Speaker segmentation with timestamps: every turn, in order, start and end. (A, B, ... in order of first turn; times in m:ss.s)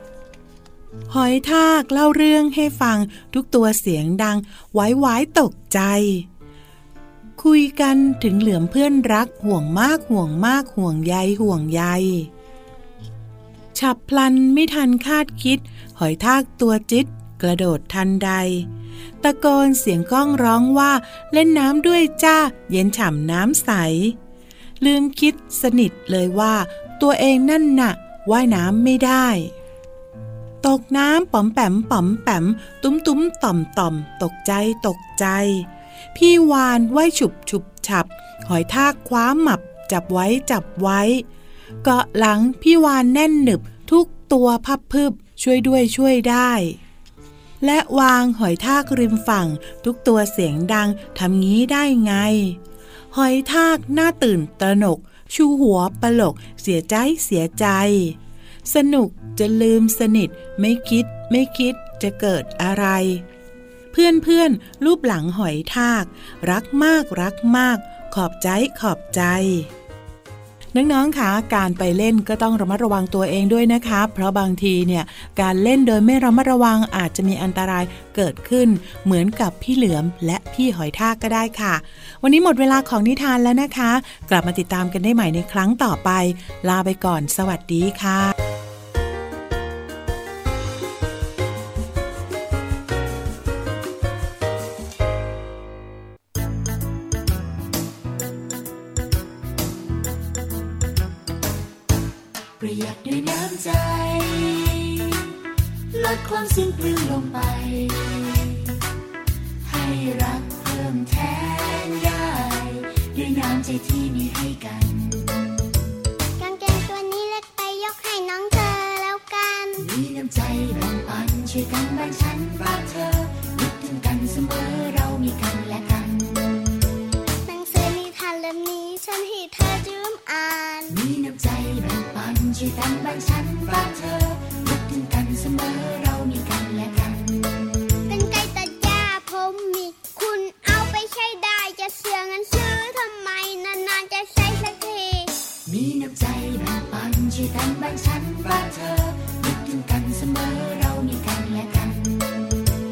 0:01.1-0:06.3 A
0:07.4-0:12.3 A
0:13.7-0:18.7 A
0:19.2-0:24.2 A
0:24.8-0:29.5 A
0:30.6-0:41.2 A
0:41.8-0:46.8 A
0:47.6-0:52.6 A
0:53.1-1:03.2 A
1:03.9-1:09.7 A
1:10.7-1:28.3 A
1:42.6-1:45.2 B
1:45.9-1:48.7 B
1:49.6-1:55.4 B
1:56.4-1:59.8 C
1:59.8-2:06.7 B
2:07.4-2:11.0 C
2:10.9-2:17.8 B
2:18.1-2:25.3 C
2:25.7-2:32.4 B